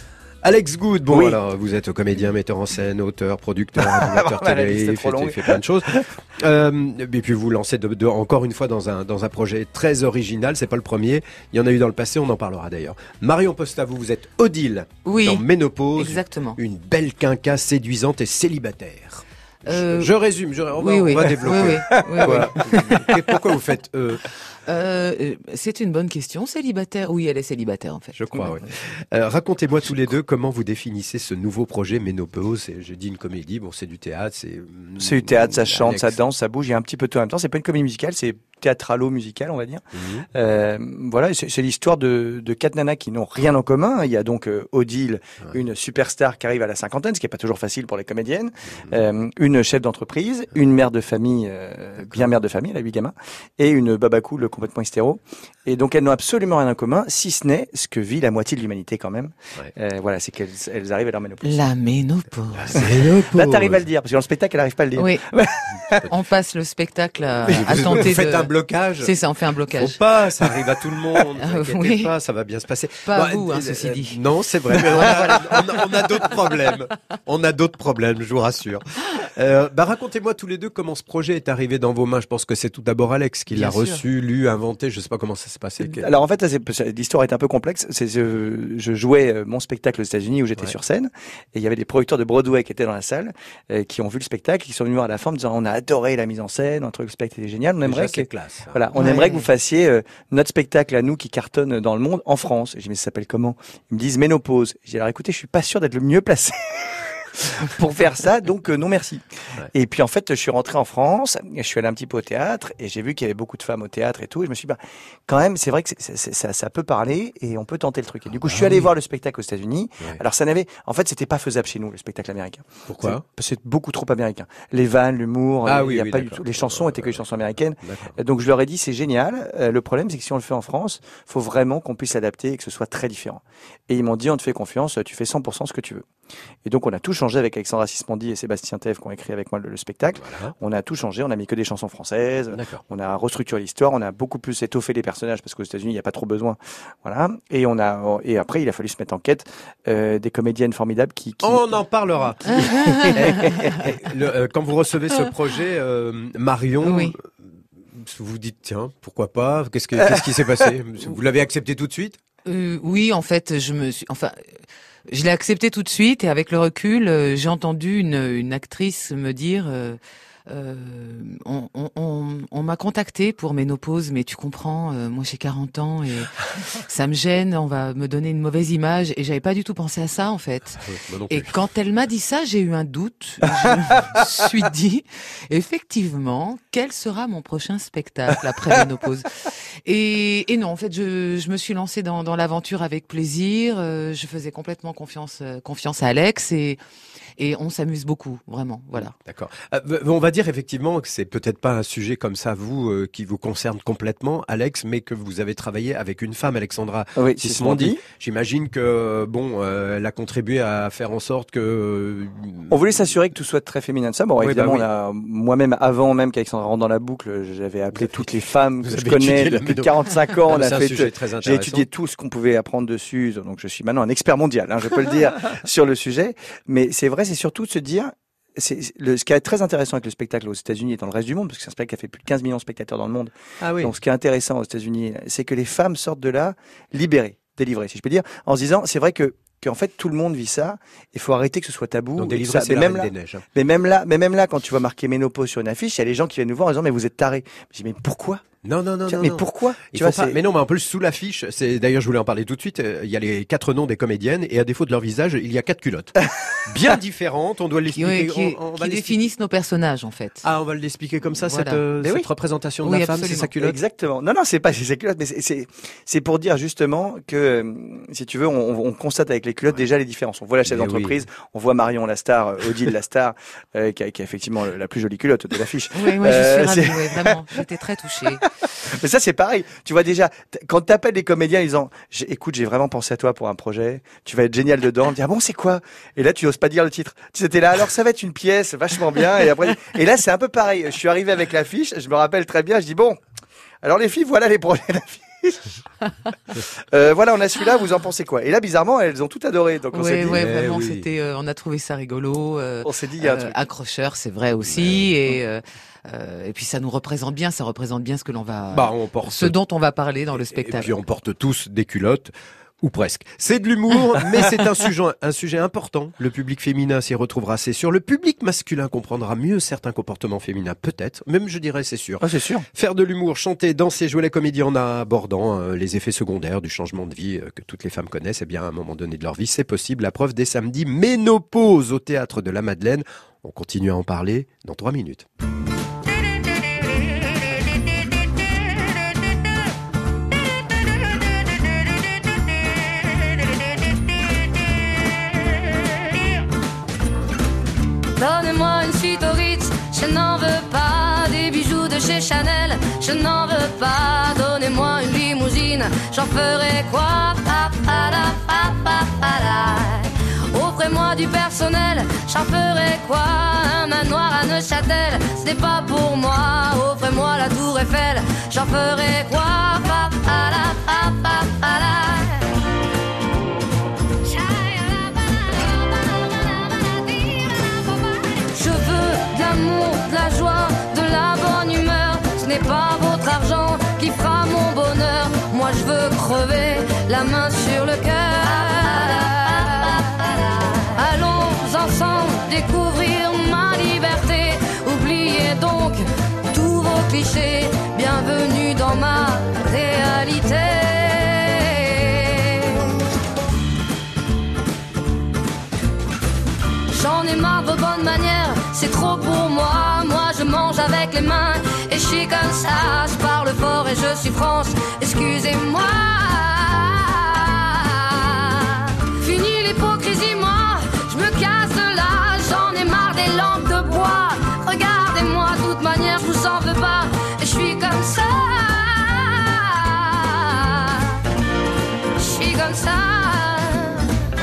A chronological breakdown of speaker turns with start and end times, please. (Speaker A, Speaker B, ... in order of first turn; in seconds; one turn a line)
Speaker A: 0.4-24.2
Speaker B: 1.1-1.4
Speaker B: 3.8-6.1
Speaker C: 15.1-15.4
Speaker C: 15.9-16.6
Speaker C: 19.7-20.1
Speaker C: 20.8-23.1
Speaker B: 22.0-23.3
Speaker C: 24.7-28.1
Speaker A: 28.1-36.2
Speaker B: 35.0-61.6
Speaker A: 40.0-40.3
Speaker C: 61.4-62.9
Speaker A: 62.5-63.8
Speaker B: 62.8-66.0
Speaker C: 65.0-65.2
Speaker C: 66.1-70.0
Speaker B: 67.5-68.1
Speaker A: 67.5-69.1
Speaker A: 69.7-86.1
Speaker C: 71.4-72.1
Speaker C: 73.1-74.2
Speaker C: 74.8-75.5
Speaker C: 83.5-84.0
Speaker B: 86.0-136.1
Speaker A: 97.8-98.8
Speaker C: 99.0-99.5
Speaker A: 118.3-118.9
Speaker A: 122.9-123.2
Speaker A: 125.6-127.3
Speaker A: 127.8-128.2
Speaker B: 136.7-151.6
Speaker A: 140.2-140.6
Speaker A: 142.5-142.8
Speaker A: 151.4-162.2
Speaker C: 152.5-153.6
Speaker B: 152.8-153.8
Speaker C: 156.8-157.2
Speaker B: 160.0-160.4
Speaker C: 162.4-164.4
Speaker C: 165.1-189.3
Speaker A: 180.8-181.6
Speaker C: 189.9-196.8
Speaker C: 197.4-199.2
Speaker A: 199.2-212.8
Speaker B: 207.2-208.0
Speaker B: 212.7-248.5
Speaker A: 214.4-214.9
Speaker A: 217.9-218.3
Speaker A: 218.8-221.9
Speaker A: 233.6-233.9
Speaker A: 242.2-243.4
Speaker A: 248.6-256.1
Speaker B: 249.1-250.4
Speaker A: 256.7-259.2
Speaker C: 257.9-260.4
Speaker A: 260.4-263.8
Speaker C: 261.4-261.8
Speaker B: 262.0-262.3
Speaker C: 262.8-263.5
Speaker B: 263.5-277.6
Speaker A: 270.7-271.2
Speaker C: 275.9-278.4
Speaker B: 278.8-293.2
Speaker B: 293.8-295.8
Speaker B: 296.6-300.4
Speaker C: 299.9-310.9
Speaker A: 300.3-301.1
Speaker B: 302.8-303.6
Speaker A: 304.6-305.1
Speaker A: 308.7-309.6
Speaker A: 310.3-335.3
Speaker B: 322.2-322.7
Speaker D: 348.2-372.5
Speaker D: 374.2-402.9
Speaker D: 406.9-431.2
Speaker D: 432.2-434.1